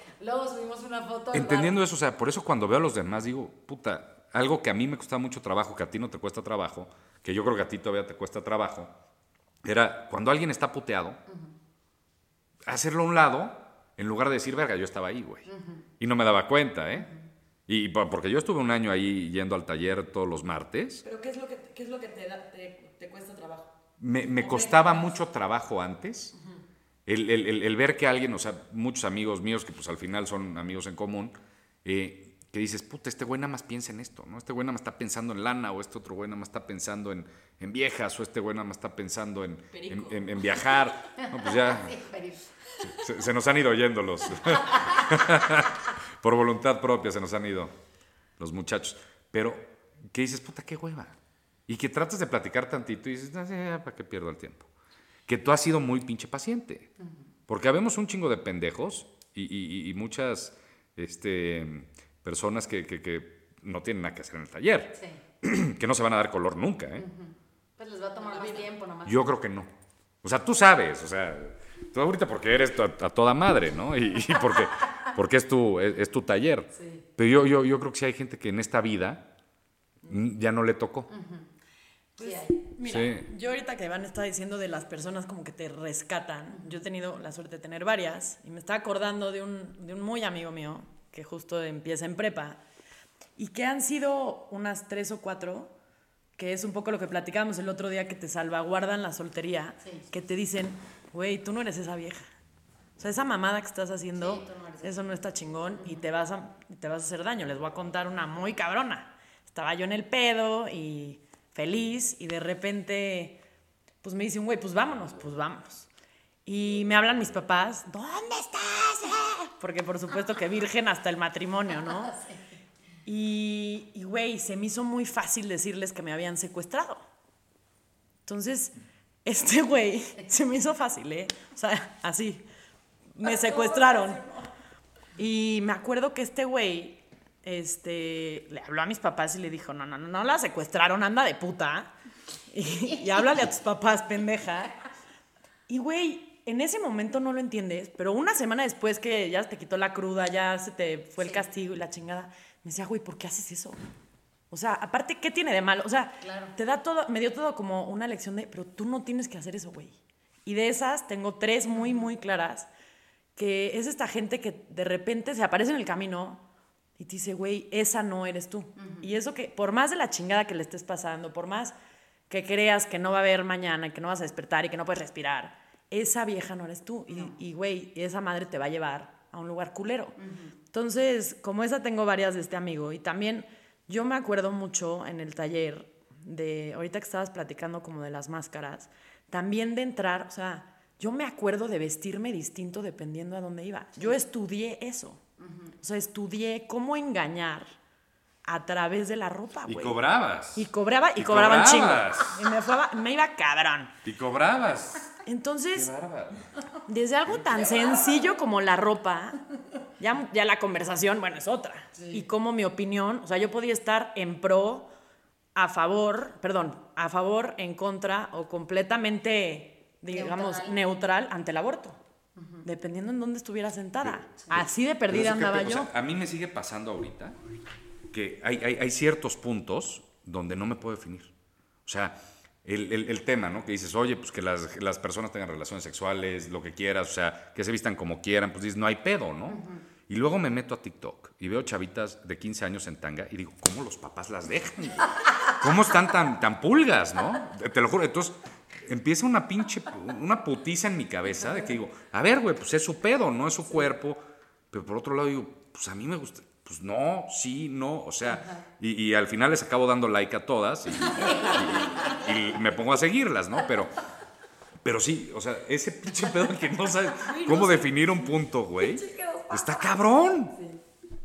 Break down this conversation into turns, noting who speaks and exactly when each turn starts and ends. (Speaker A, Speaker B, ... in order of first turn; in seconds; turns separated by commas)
Speaker A: 0.2-1.8, Speaker B: 1.3-8.9, Speaker B: 9.6-11.2, Speaker B: 12.6-15.5, Speaker B: 16.0-17.1, Speaker B: 17.7-21.0, Speaker C: 21.0-23.7, Speaker B: 24.0-26.3, Speaker C: 24.4-25.1, Speaker B: 27.1-31.3, Speaker B: 31.8-42.0, Speaker C: 39.7-40.2, Speaker A: 41.2-42.4, Speaker B: 42.8-47.7, Speaker A: 44.6-45.0, Speaker B: 48.4-51.1, Speaker B: 51.7-54.7, Speaker B: 55.3-56.9, Speaker B: 57.5-67.0, Speaker A: 64.9-65.2, Speaker A: 67.0-69.2, Speaker C: 68.3-68.7, Speaker B: 69.0-69.7, Speaker B: 70.2-79.3, Speaker A: 76.8-77.0, Speaker B: 80.1-81.1, Speaker A: 81.1-81.4, Speaker A: 82.2-82.6, Speaker C: 82.2-92.6, Speaker B: 82.8-83.2, Speaker C: 93.4-95.7, Speaker C: 96.4-102.3, Speaker C: 103.0-113.4, Speaker A: 104.2-105.2, Speaker C: 114.0-115.9, Speaker C: 116.5-122.1, Speaker A: 122.1-122.3, Speaker C: 123.0-127.0, Speaker C: 128.3-128.7, Speaker C: 129.2-132.4, Speaker C: 133.2-134.4, Speaker A: 133.7-134.1, Speaker C: 135.2-141.9, Speaker C: 142.5-144.7, Speaker C: 145.7-153.8, Speaker A: 151.2-151.4, Speaker C: 154.5-162.7, Speaker A: 156.2-156.5, Speaker C: 163.3-166.4, Speaker C: 167.0-171.7, Speaker A: 168.8-169.0, Speaker C: 172.3-180.2, Speaker A: 177.1-177.3, Speaker C: 180.7-195.2, Speaker C: 195.8-197.7, Speaker C: 198.4-200.0, Speaker B: 199.7-202.4, Speaker C: 200.5-203.9, Speaker B: 204.0-205.1, Speaker C: 205.2-205.9, Speaker B: 205.7-206.5, Speaker C: 206.9-209.4, Speaker B: 207.3-207.5, Speaker C: 210.0-214.9, Speaker C: 215.5-222.0, Speaker A: 220.1-220.8, Speaker A: 222.4-222.6, Speaker C: 222.6-225.9, Speaker B: 224.5-227.3, Speaker B: 228.1-231.3, Speaker B: 231.8-263.9, Speaker A: 239.5-239.8, Speaker A: 261.2-262.2, Speaker B: 264.8-270.5, Speaker C: 267.3-268.1, Speaker A: 269.0-270.3